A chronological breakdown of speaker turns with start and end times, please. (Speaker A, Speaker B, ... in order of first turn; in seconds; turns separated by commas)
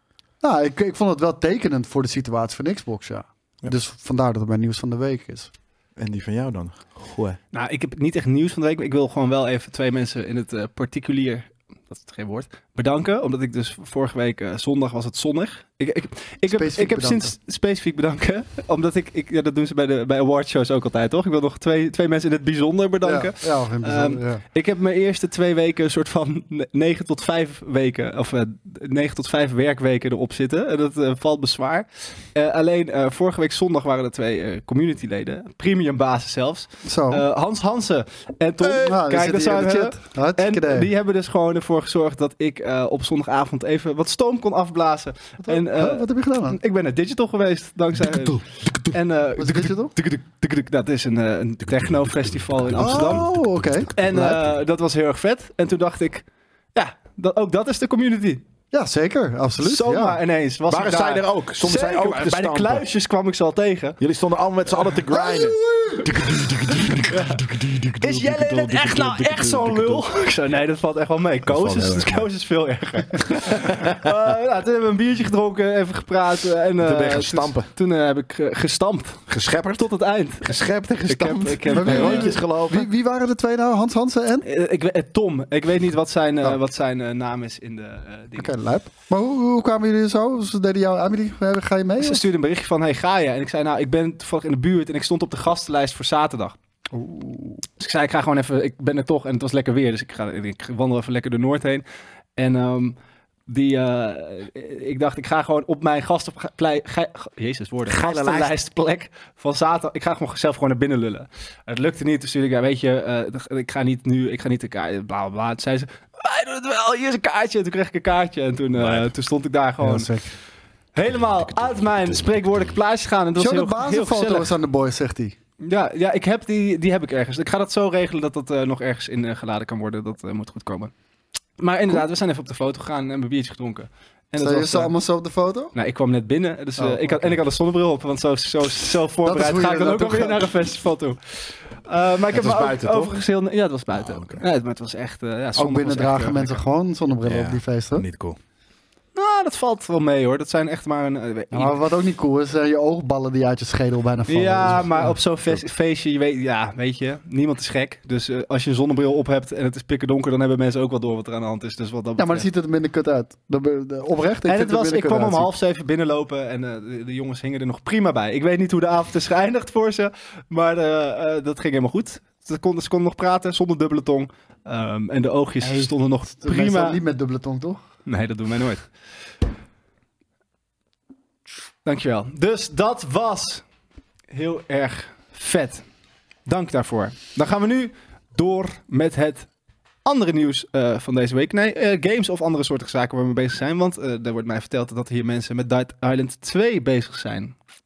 Speaker A: 0.4-5.5, Speaker B: 6.0-7.4, Speaker C: 7.5-53.3, Speaker A: 16.5-17.3, Speaker A: 23.0-24.4, Speaker A: 36.8-37.2, Speaker A: 38.6-40.9, Speaker A: 45.4-46.6, Speaker B: 48.0-48.9, Speaker A: 49.4-49.9, Speaker A: 52.7-54.4, Speaker B: 52.8-53.9, Speaker C: 53.9-58.4, Speaker A: 58.7-60.2, Speaker C: 59.6-64.0, Speaker B: 60.7-62.9, Speaker B: 64.0-70.1, Speaker A: 65.1-67.9, Speaker C: 67.1-67.4, Speaker C: 68.0-82.3, Speaker B: 71.5-72.2, Speaker B: 73.4-74.1, Speaker B: 76.8-77.7, Speaker B: 79.3-79.8, Speaker B: 80.4-82.9, Speaker A: 81.7-84.5, Speaker C: 84.4-88.5, Speaker A: 88.3-92.2, Speaker C: 92.0-96.5, Speaker A: 96.9-97.6, Speaker C: 97.8-101.8, Speaker C: 102.4-103.0, Speaker C: 103.5-120.1, Speaker B: 107.9-108.5, Speaker B: 118.7-119.1, Speaker A: 119.8-120.3, Speaker C: 120.9-124.5, Speaker B: 121.4-122.1, Speaker A: 123.3-125.3, Speaker C: 125.6-130.9, Speaker C: 131.6-134.9, Speaker A: 134.4-135.7, Speaker C: 135.7-146.6, Speaker A: 136.8-137.3, Speaker A: 139.2-140.5, Speaker B: 142.3-143.2, Speaker B: 143.9-144.4, Speaker A: 145.6-148.1, Speaker B: 147.2-148.4, Speaker C: 149.1-151.8, Speaker A: 151.5-155.1, Speaker C: 154.3-162.5, Speaker A: 162.2-165.5, Speaker C: 164.5-177.0, Speaker A: 175.6-177.8, Speaker C: 178.1-178.9, Speaker C: 181.8-183.6, Speaker C: 184.3-185.8, Speaker C: 186.4-189.5, Speaker C: 190.0-197.6